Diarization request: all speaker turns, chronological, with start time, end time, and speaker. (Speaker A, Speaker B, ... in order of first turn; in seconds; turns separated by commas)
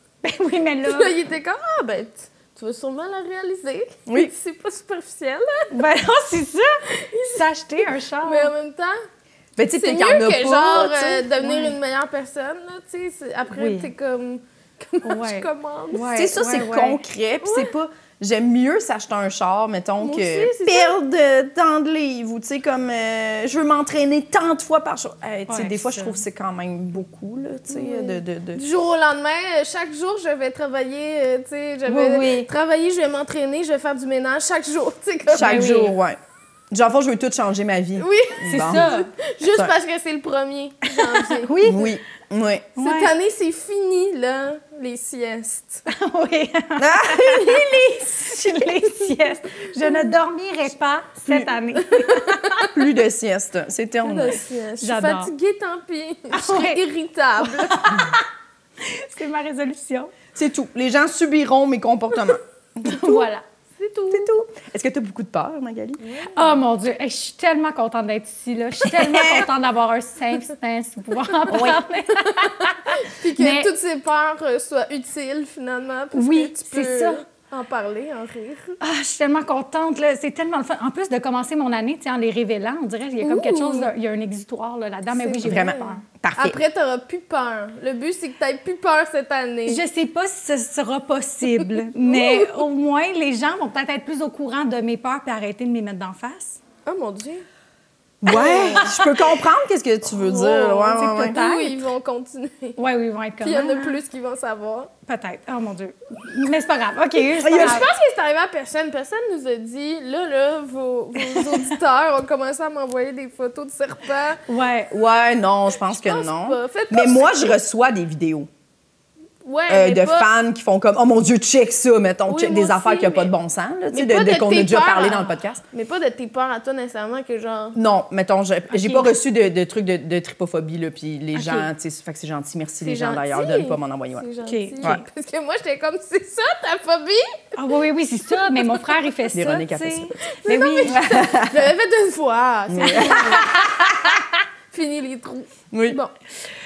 Speaker A: 0.2-1.1, Speaker B: 0.8-5.7, Speaker C: 4.1-4.3, Speaker A: 5.7-8.5, Speaker B: 6.9-7.4, Speaker B: 8.2-9.0, Speaker C: 9.6-11.5, Speaker B: 9.7-16.2, Speaker A: 13.5-13.9, Speaker A: 15.0-17.0, Speaker C: 16.1-28.6, Speaker B: 17.4-17.7, Speaker B: 20.0-20.9, Speaker A: 25.5-26.2, Speaker B: 27.7-35.7, Speaker A: 31.9-32.5, Speaker C: 35.3-36.2, Speaker A: 35.3-36.0, Speaker C: 36.7-38.9, Speaker B: 38.0-41.5, Speaker A: 38.5-39.1, Speaker C: 39.4-39.7, Speaker A: 40.9-42.0, Speaker C: 41.6-42.7, Speaker A: 42.8-43.1, Speaker B: 42.8-45.9, Speaker A: 45.9-52.7, Speaker C: 46.8-48.0, Speaker B: 51.8-52.7, Speaker C: 52.7-54.4, Speaker B: 54.0-58.1, Speaker A: 54.8-55.3, Speaker A: 56.3-56.8, Speaker A: 57.4-58.3, Speaker A: 58.8-60.1, Speaker C: 60.4-63.1, Speaker A: 62.8-63.5, Speaker B: 63.8-64.3, Speaker C: 64.1-66.0, Speaker B: 66.0-66.6, Speaker A: 66.3-73.7, Speaker C: 68.9-69.5, Speaker C: 71.5-71.8, Speaker B: 72.2-78.8, Speaker A: 76.1-77.2, Speaker A: 78.8-86.0, Speaker B: 83.2-83.9, Speaker B: 85.1-89.8, Speaker C: 85.4-86.6, Speaker A: 89.7-96.6, Speaker B: 92.0-92.6, Speaker B: 96.9-97.5, Speaker C: 98.2-101.4, Speaker B: 98.3-99.0, Speaker A: 98.8-99.1, Speaker B: 100.2-102.8, Speaker A: 100.9-101.8, Speaker A: 102.8-104.0, Speaker B: 103.4-104.9, Speaker A: 105.1-107.9, Speaker C: 107.4-107.8, Speaker B: 107.5-114.4, Speaker A: 114.5-114.9, Speaker C: 114.9-118.5, Speaker B: 115.9-117.6, Speaker B: 119.4-120.3, Speaker C: 119.7-125.6, Speaker B: 122.3-123.3, Speaker B: 123.9-127.8, Speaker C: 127.8-134.2, Speaker A: 128.7-129.1, Speaker A: 131.3-131.7, Speaker B: 132.8-137.5, Speaker A: 134.5-135.0, Speaker A: 137.6-141.0, Speaker C: 139.3-140.1, Speaker B: 140.3-144.2, Speaker C: 140.9-141.7, Speaker C: 142.7-143.7, Speaker A: 142.9-143.9, Speaker B: 144.7-146.1, Speaker C: 145.7-146.0